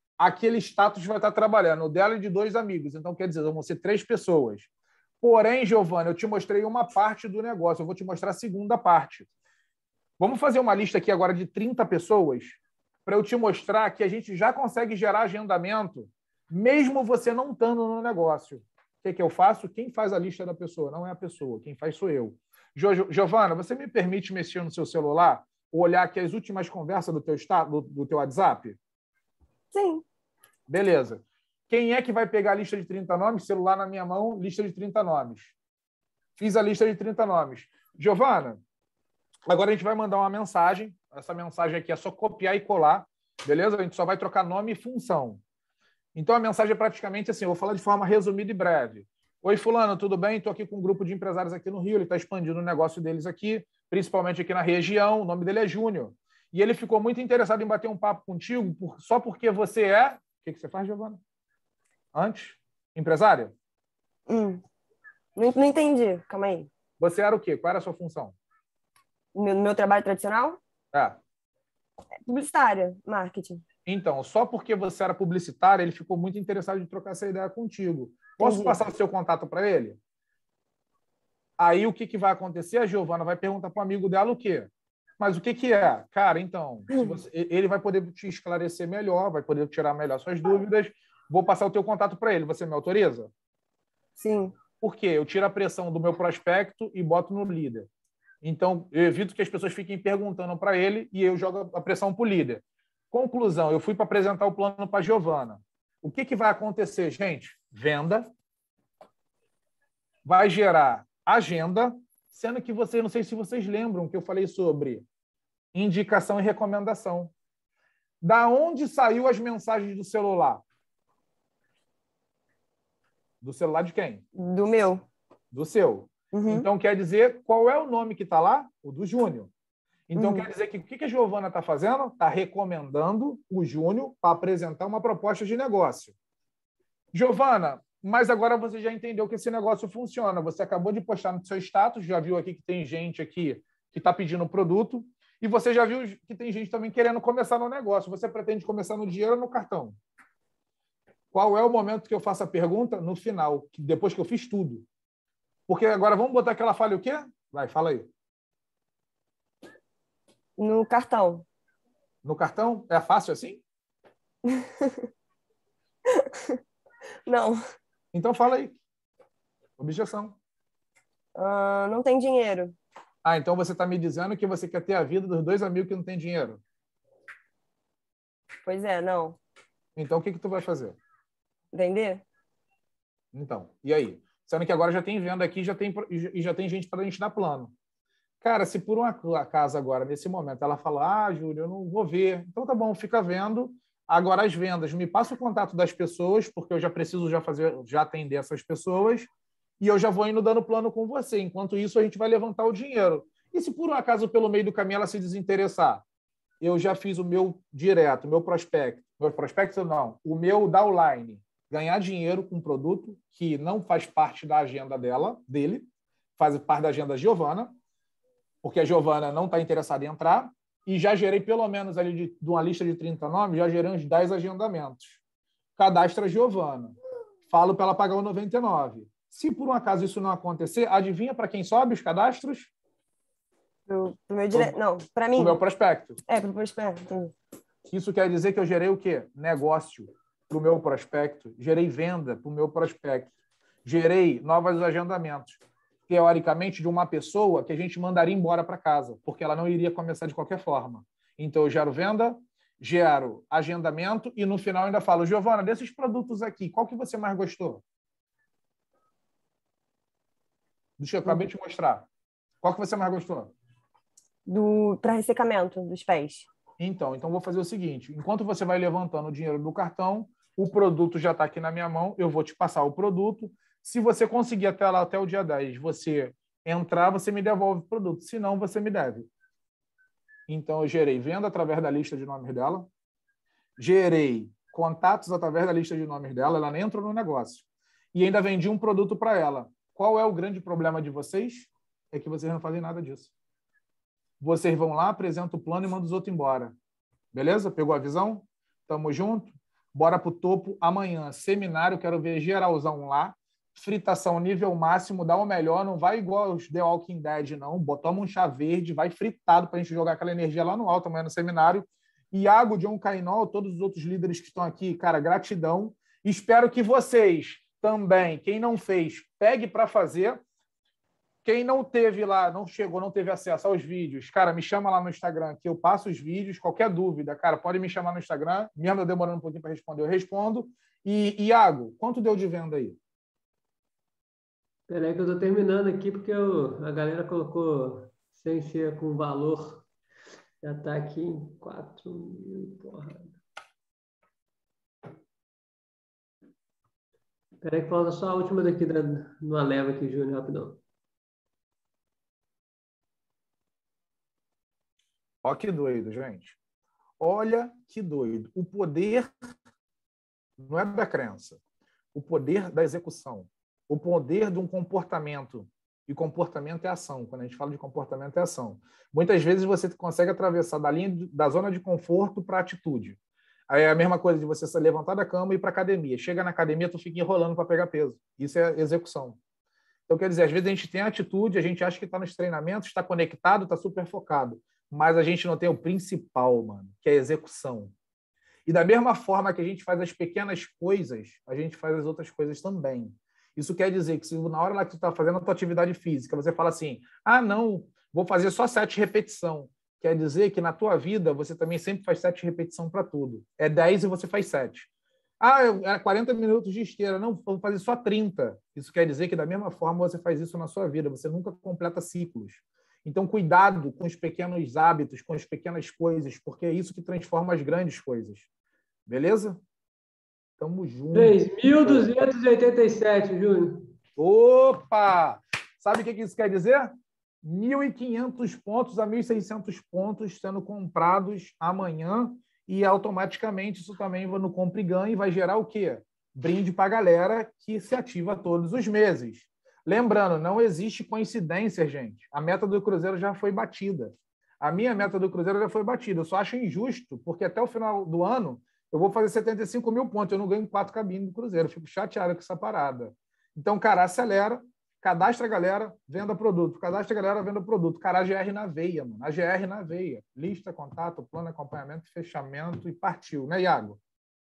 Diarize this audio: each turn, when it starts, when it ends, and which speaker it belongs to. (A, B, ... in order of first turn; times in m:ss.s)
0:00.2-0:04.7 A
0:05.2-0:09.3 A
0:10.2-0:28.8 A
0:29.7-0:30.0 B
0:30.7-0:35.5 A
0:36.4-0:38.6 A
0:39.5-0:45.4 A
0:46.1-1:01.2 A
1:02.1-1:03.5 A
1:04.3-1:04.6 B
1:05.4-1:06.7 B
1:07.0-1:08.4 A
1:09.3-1:10.6 B
1:10.9-1:11.2 A
1:12.2-1:13.6 B
1:13.8-1:20.0 A
1:18.4-1:18.8 B
1:21.6-1:33.3 A
1:34.2-1:34.6 B
1:34.8-1:37.9 A
1:38.4-1:48.3 A
1:50.2-1:55.0 A
1:55.7-1:57.3 A
1:58.2-2:00.6 A
2:03.4-2:04.2 A
2:04.4-2:05.0 B
2:05.5-2:09.5 A
2:06.3-2:06.6 B
2:10.1-2:16.1 A
2:10.2-2:10.4 B
2:17.1-2:30.0 A
2:31.3-2:34.8 A
2:35.7-2:38.1 A
2:40.6-2:41.4 B
2:42.2-2:43.6 A
2:44.5-2:45.0 B
2:46.1-2:46.6 B
2:47.2-2:47.6 B
2:48.1-2:48.8 A
2:49.8-2:50.4 A
2:51.3-2:52.8 B
2:53.2-2:56.6 A
2:58.6-2:59.4 B
3:00.0-3:01.0 A
3:01.7-3:02.2 B
3:03.3-3:07.7 A
3:08.4-3:26.0 A
3:26.6-3:37.7 A
3:38.6-3:45.2 A
3:45.8-3:47.0 A
3:47.5-3:52.7 A
3:53.9-3:55.6 B
3:55.3-3:56.2 A
3:56.3-3:57.3 B
3:57.9-4:03.3 A
4:03.8-4:17.8 A
4:21.0-4:22.1 A
4:22.6-4:23.5 A
4:24.4-4:26.5 B
4:26.8-4:39.3 A
4:40.5-4:42.9 A
4:43.8-4:53.3 A
4:54.4-4:56.7 A
4:57.3-5:20.4 A
5:21.4-5:33.0 A
5:34.9-5:39.9 C
5:40.6-5:43.4 C
5:47.6-5:50.8 C
5:55.4-5:56.6 A
5:57.2-5:59.3 A
6:00.6-6:01.6 A
6:02.1-6:13.2 A
6:13.7-6:19.4 A
6:20.1-6:27.9 A
6:28.7-6:44.9 A
6:45.4-6:58.5 A
6:59.1-6:59.6 A
7:00.6-7:02.1 A
7:01.1-7:03.9 C
7:04.2-7:44.0 A